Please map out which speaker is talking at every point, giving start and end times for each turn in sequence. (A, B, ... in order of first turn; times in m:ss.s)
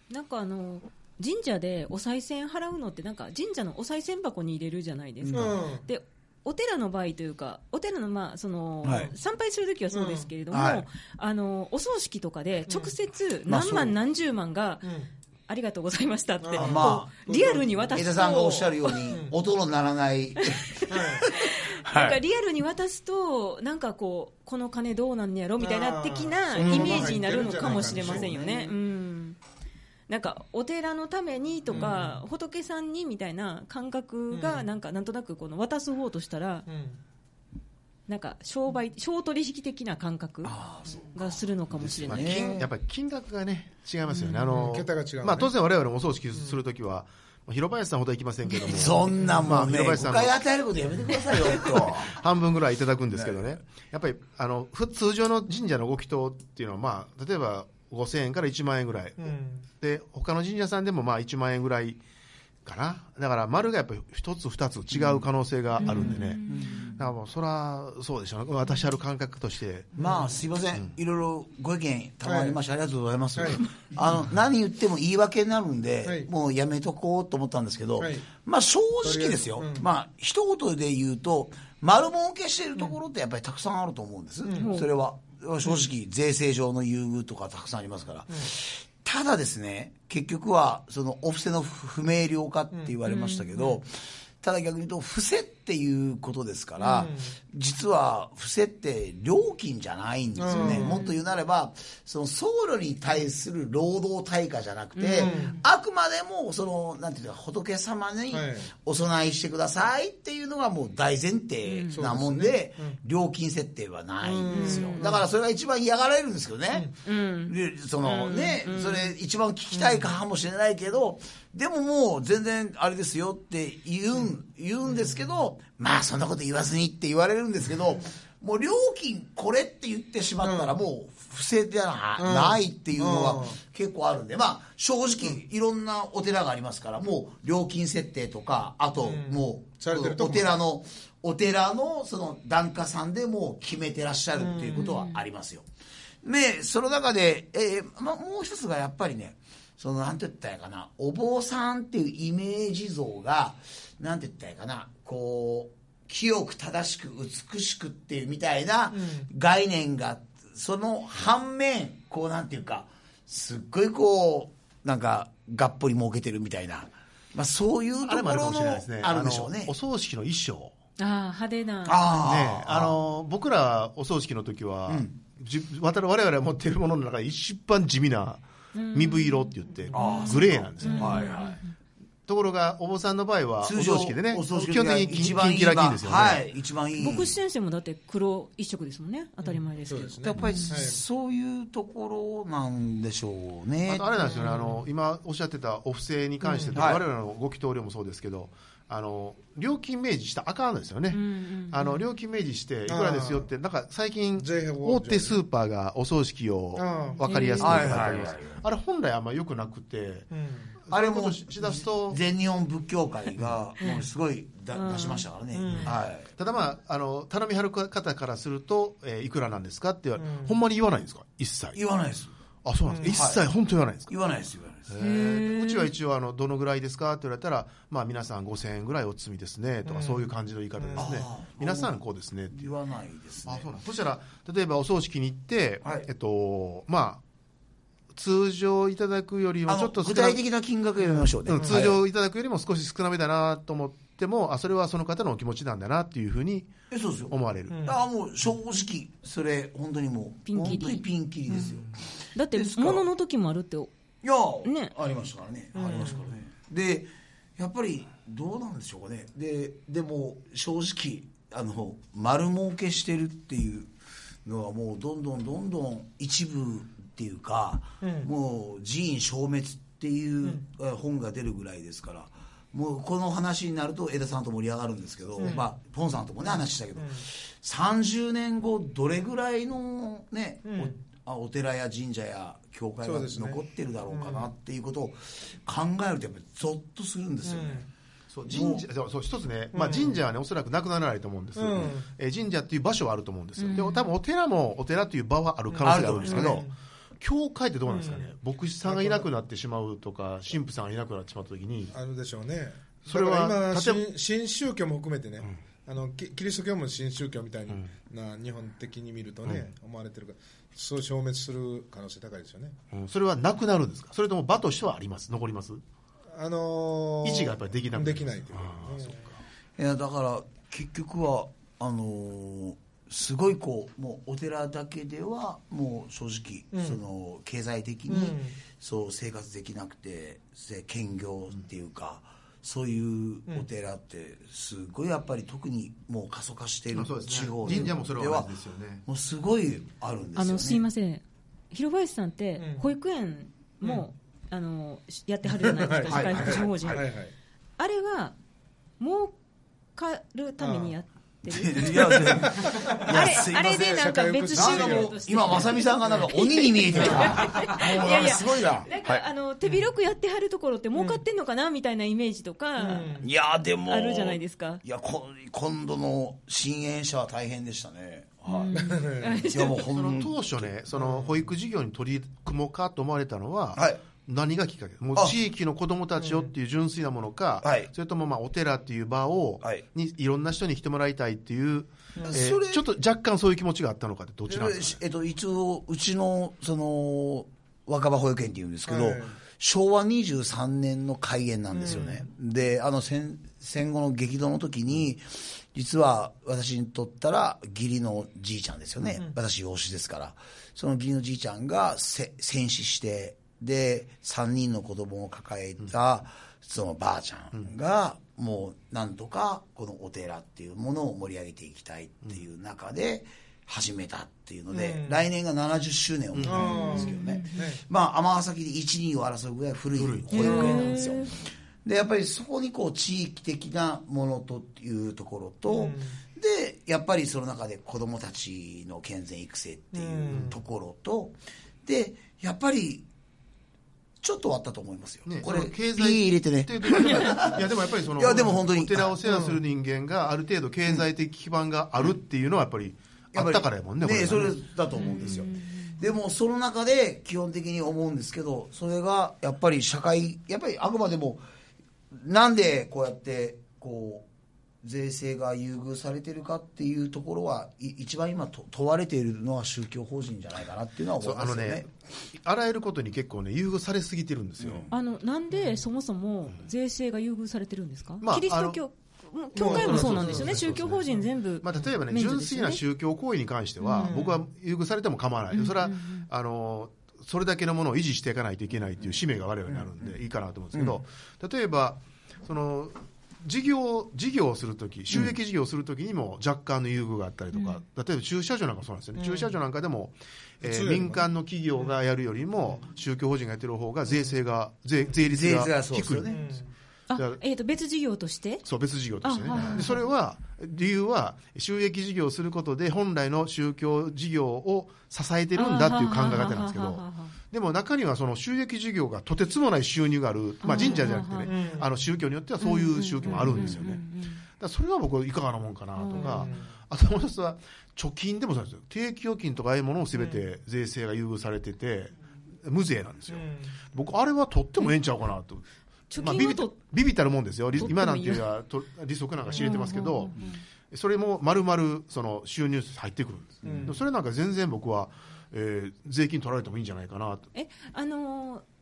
0:00.1-0:14.9 A
0:05.2-0:05.6 B
0:05.3-0:05.8 C
0:08.8-0:09.1 B
0:09.9-0:10.3 C
0:10.5-0:10.8 B
0:12.7-0:12.9 C
0:13.5-0:13.9 B
0:14.8-0:15.1 C
0:15.5-0:19.0 A
0:16.4-0:18.1 C
0:16.6-0:17.1 B
0:17.9-0:22.2 B
0:19.1-0:19.3 C
0:20.5-0:29.4 A
0:20.9-0:21.2 C
0:25.6-0:28.4 C
0:26.5-0:28.7 B
0:30.1-0:36.7 A
0:31.7-0:32.2 C
0:34.3-0:34.6 C
0:36.7-0:37.0 C
0:38.1-0:40.5 A
0:40.4-0:42.7 B
0:41.1-0:42.5 A
0:42.1-0:50.4 D
0:44.1-0:44.5 A
0:44.4-0:45.5 C
0:48.6-0:52.2 B
0:51.1-1:02.0 D
0:59.2-0:59.6 C
1:02.6-1:09.9 D
1:05.8-1:06.9 A
1:06.0-1:07.0 B
1:10.0-1:10.3 C
1:10.0-1:56.9 B
1:12.2-1:12.6 C
1:13.4-1:13.6 C
1:16.0-1:16.3 C
1:18.0-1:18.3 C
1:19.0-1:19.9 C
1:24.4-1:24.8 C
1:24.6-1:24.9 A
1:33.0-1:33.7 A
1:37.0-1:37.4 C
1:40.4-1:41.0 C
1:40.5-1:41.2 A
1:45.0-1:45.6 A
1:45.2-1:45.6 C
1:48.3-1:48.7 C
1:51.6-1:52.0 A
1:51.9-1:53.0 C
1:54.3-1:55.2 C
1:54.4-1:55.0 A
1:57.0-1:59.1 A
1:57.4-2:25.6 B
1:59.8-2:00.0 C
2:10.4-2:10.7 C
2:12.2-2:13.6 C
2:19.0-2:20.6 C
2:24.4-2:24.9 C
2:24.7-2:25.2 A
2:26.2-2:49.7 B
2:38.9-2:39.3 C
2:48.0-2:50.7 D
2:51.0-2:52.1 A
2:51.8-2:53.0 B
2:52.2-3:01.2 D
2:54.9-2:55.1 B
2:58.7-3:01.6 A
2:59.9-3:01.6 B
3:02.3-3:06.4 D
3:03.6-3:07.3 B
3:07.0-3:10.8 A
3:09.4-3:11.0 C
3:10.2-3:14.1 B
3:13.9-3:30.3 D
3:14.3-3:14.7 C
3:16.4-3:16.7 C
3:16.7-3:17.0 B
3:21.1-3:22.0 A
3:22.9-3:23.5 C
3:24.4-3:25.4 C
3:26.7-3:27.2 C
3:27.2-3:28.0 A
3:27.6-3:28.6 B
3:30.3-3:30.7 C
3:30.9-3:32.2 D
3:30.9-3:36.3 B
3:34.7-3:35.3 A
3:35.5-3:35.9 C
3:35.7-3:41.8 D
3:40.2-3:40.6 C
3:41.7-3:42.3 B
3:42.6-3:44.1 D
3:42.9-3:43.2 C
3:43.0-3:43.4 B
3:44.1-3:44.9 B
3:44.9-3:52.7 D
3:45.0-3:45.9 A
3:49.8-3:51.1 C
3:51.0-3:53.7 B
3:53.4-3:57.2 D
3:55.8-3:56.1 B
3:58.1-4:00.4 D
3:59.7-4:02.0 B
4:01.4-4:06.8 D
4:01.6-4:01.9 C
4:06.9-4:12.0 B
4:07.3-4:07.9 D
4:07.7-4:08.0 C
4:10.5-4:11.0 A
4:12.3-4:13.9 A
4:12.5-4:13.1 B
4:14.2-4:23.9 B
4:14.6-4:14.9 A
4:15.7-4:16.3 C
4:24.4-4:47.9 B
4:28.0-4:28.3 C
4:35.4-4:35.6 C
4:37.0-4:37.2 C
4:40.6-4:41.0 C
4:43.0-4:44.5 C
4:47.4-4:47.9 C
4:48.3-4:56.7 D
4:48.5-4:48.8 B
4:49.7-4:50.2 C
4:51.6-4:52.1 C
4:53.6-4:54.1 A
4:55.7-4:56.7 C
4:55.8-4:56.7 B
4:57.2-5:01.9 D
4:57.9-4:58.3 C
4:58.8-4:59.3 C
5:01.9-5:12.8 C
5:03.0-5:04.0 D
5:12.9-5:15.8 D
5:16.3-5:19.2 C
5:17.2-5:19.4 D
5:19.8-5:38.5 B
5:26.7-5:27.0 C
5:28.1-5:28.6 C
5:36.9-5:39.0 D
5:39.0-5:40.8 B
5:40.4-5:47.1 A
5:42.6-5:42.8 C
5:43.8-5:44.1 C
5:45.4-5:47.3 C
5:46.1-5:47.0 B
5:47.8-5:48.3 A
5:49.0-5:49.3 A
5:50.0-6:03.2 A
5:50.6-5:51.0 C
5:51.5-5:59.2 B
5:51.9-5:55.2 C
5:56.0-5:56.3 C
5:56.9-5:57.5 C
6:01.0-6:01.2 C
6:02.8-6:03.3 C
6:03.2-6:08.8 B
6:03.8-6:04.8 A
6:08.5-6:09.9 A
6:08.7-6:09.5 C
6:09.3-6:10.7 B
6:09.9-6:25.0 D
6:10.9-6:11.4 C
6:13.7-6:14.0 B
6:16.2-6:16.5 C
6:17.6-6:17.9 B
6:22.2-6:22.8 B
6:24.5-7:13.1 B
6:28.8-6:29.4 C
6:31.7-6:32.2 C
6:54.7-6:55.2 C
6:56.3-6:57.0 D
6:56.4-6:57.8 C
6:56.7-6:57.5 A
6:59.9-7:00.7 D
7:00.3-7:01.3 A
7:00.5-7:00.9 C
7:05.7-7:06.2 C
7:09.9-7:10.6 C
7:14.2-7:19.2 B
7:15.2-7:24.6 D
7:19.2-7:19.6 C
7:23.3-7:31.4 B
7:24.9-7:26.0 A
7:32.1-7:34.2 B
7:34.8-7:41.9 B
7:41.2-7:44.8 D
7:44.6-7:44.9 B
7:44.9-7:52.8 A
7:45.5-7:45.8 C
7:48.2-7:48.8 D
7:49.5-7:51.2 C
7:49.6-7:51.0 D
7:51.6-8:16.3 D
7:53.8-7:54.2 A
7:54.0-7:54.4 C
7:55.5-7:56.3 A
8:07.5-8:07.8 A
8:09.1-8:09.6 C
8:10.6-8:11.3 C
8:14.1-8:14.3 C
8:15.3-8:16.5 B
8:16.3-8:16.7 C
8:17.1-8:18.6 A
8:17.1-8:17.4 D
8:18.6-8:45.6 D
8:19.2-8:20.0 A
8:19.5-8:19.9 C
8:25.5-8:27.3 A
8:30.6-8:31.5 A
8:31.4-8:31.9 C
8:32.6-8:34.4 A
8:33.2-8:33.7 C
8:36.0-8:36.5 A
8:36.1-8:36.7 C
8:40.1-8:40.4 C
8:43.3-8:43.7 C
8:46.1-8:46.7 A
8:46.2-8:57.5 D
8:47.8-8:48.4 A
8:49.4-8:49.8 C
8:49.5-8:50.6 A
8:53.6-8:54.0 C
8:57.5-8:58.6 A